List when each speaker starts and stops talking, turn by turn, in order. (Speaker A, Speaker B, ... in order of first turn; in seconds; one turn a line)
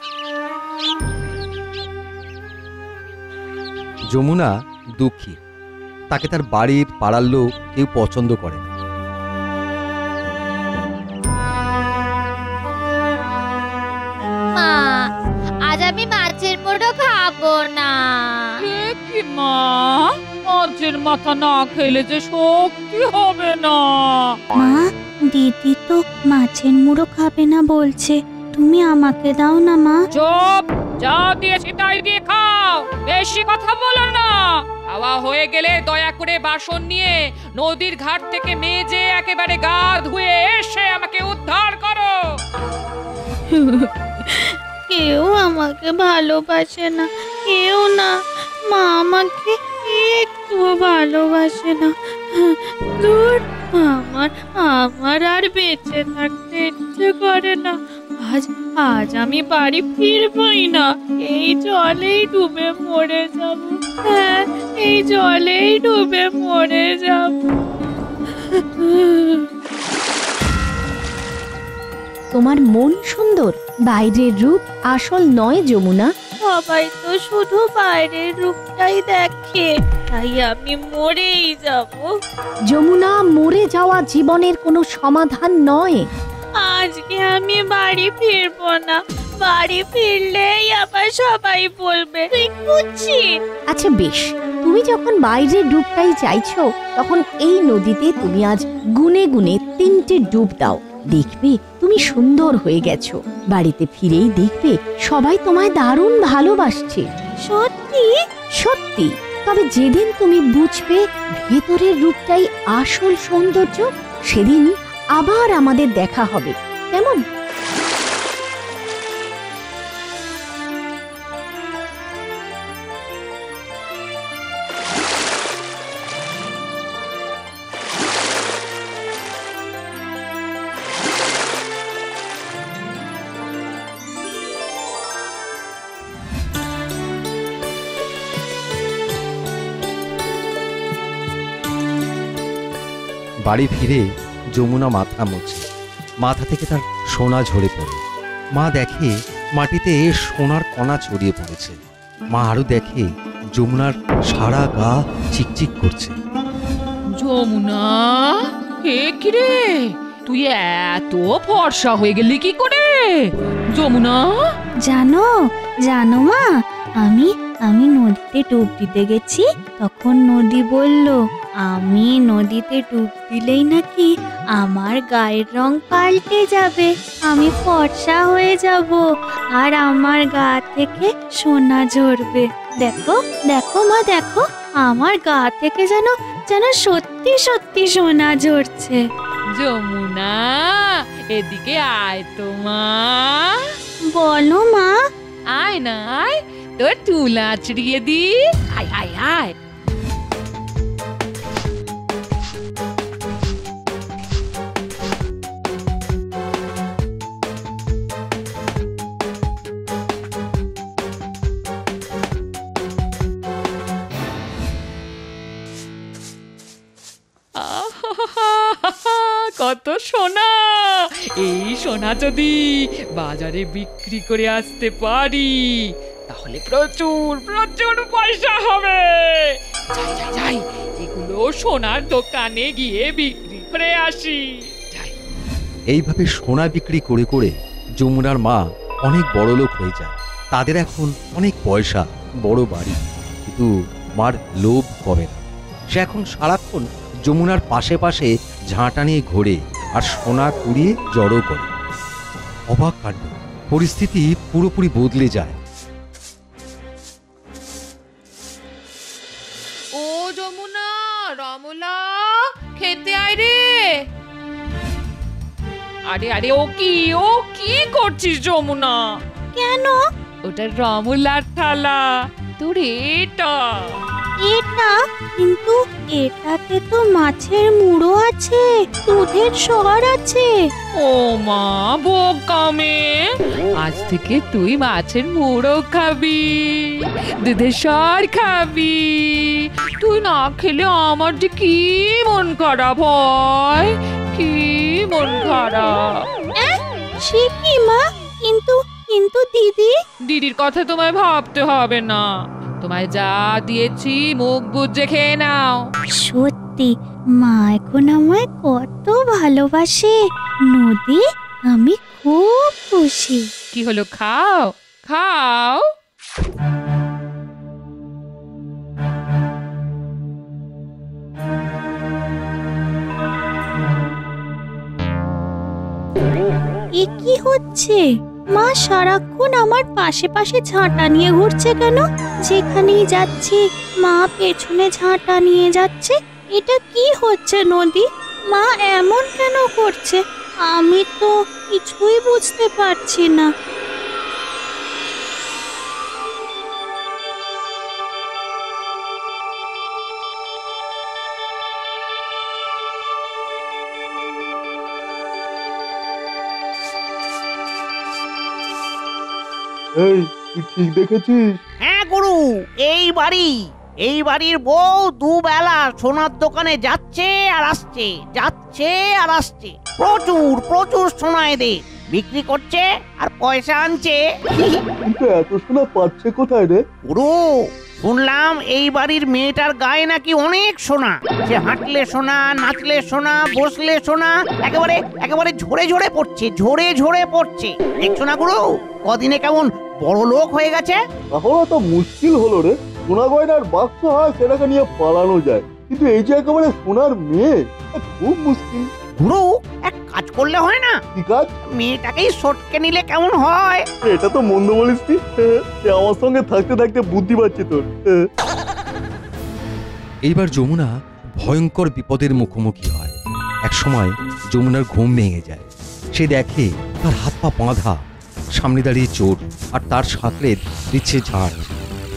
Speaker A: 4.1-5.4
Speaker A: 6.1-8.7
Speaker B: 14.6-15.1
Speaker B: 15.7-18.6
Speaker C: 18.6-24.3
Speaker D: 24.6-30.0
Speaker C: 30.1-42.2
Speaker D: 43.5-43.8
Speaker D: 44.9-48.1
Speaker D: 48.7-51.9
Speaker D: 53.0-67.4
Speaker D: 68.8-69.4
Speaker E: 72.3-76.1
Speaker D: 76.4-82.0
Speaker E: 82.7-86.0
Speaker D: 86.6-93.2
Speaker E: 93.7-107.0
Speaker D: 107.5-108.1
Speaker E: 108.6-114.7
Speaker E: 115.2-117.2
Speaker A: 143.5-144.0
Speaker A: 144.6-145.6
Speaker A: 146.2-148.0
Speaker A: 148.6-151.8
Speaker A: 152.3-156.1
Speaker C: 157.2-159.7
Speaker C: 160.2-163.1
Speaker C: 163.7-164.3
Speaker D: 164.9-165.3
Speaker D: 165.9-166.4
Speaker D: 167.0-179.0
Speaker D: 179.6-189.0
Speaker C: 189.5-193.5
Speaker D: 194.1-194.9
Speaker C: 195.5-199.5
Speaker C: 217.6-235.1
Speaker A: 235.9-251.7
Speaker A: 252.7-255.6
Speaker C: 259.9-264.0
Speaker C: 266.1-269.0
Speaker D: 269.5-270.0
Speaker C: 270.4-272.1
Speaker C: 272.6-273.9
Speaker D: 274.4-280.5
Speaker C: 281.0-283.2
Speaker C: 283.8-286.9
Speaker C: 287.4-296.2
Speaker D: 296.6-299.9
Speaker C: 300.3-302.2
Speaker C: 302.8-305.8
Speaker D: 306.2-310.1
Speaker D: 310.7-313.4
Speaker C: 313.7-315.8
Speaker D: 326.9-328.0
Speaker D: 328.5-343.5
Speaker F: 359.9-361.6
Speaker G: 361.8-374.8
Speaker F: 375.1-376.8
Speaker G: 377.0-377.4
Speaker G: 378.0-391.0
Speaker F: 391.3-398.9
Speaker G: 399.2-401.0
Speaker F: 401.1-401.5
Speaker G: 401.6-403.9
Speaker F: 404.1-408.1
Speaker A: 410.2-418.0
Speaker A: 418.5-421.8